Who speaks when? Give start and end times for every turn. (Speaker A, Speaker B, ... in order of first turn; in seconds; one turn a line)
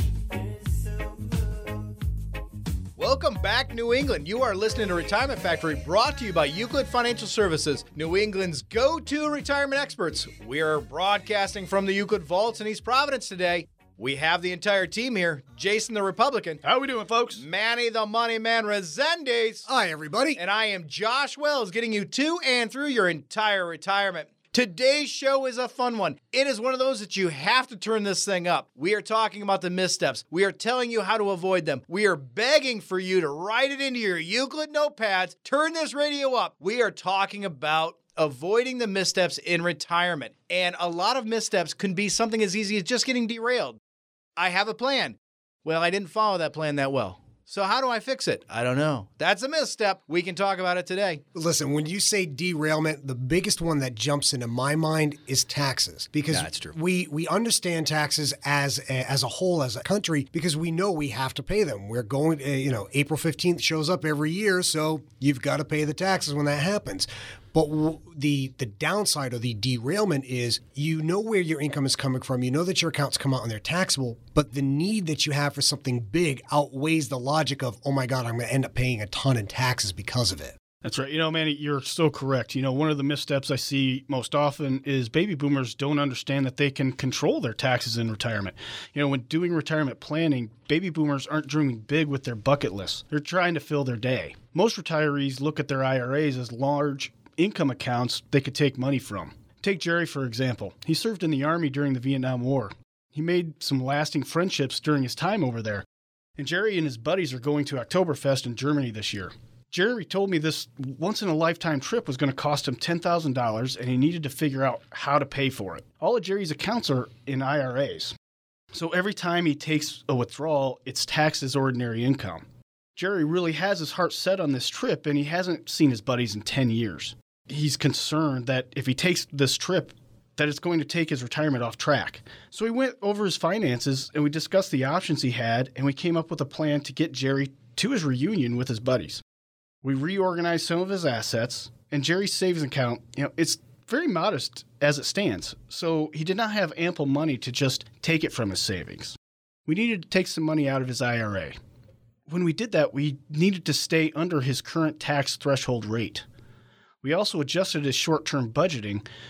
Speaker A: 3.0-16.6
Speaker B: 16.6-17.4
Speaker A: 17.4-19.7
Speaker C: 19.7-20.4
Speaker A: 20.4-43.8
Speaker A: 44.4-51.2
Speaker C: 51.3-80.6
Speaker A: 56.3-56.7
Speaker B: 80.8-105.8
Speaker B: 106.4-118.2
Speaker B: 118.7-139.2
Speaker B: 139.8-151.6
Speaker B: 152.3-156.2
Speaker B: 157.0-159.0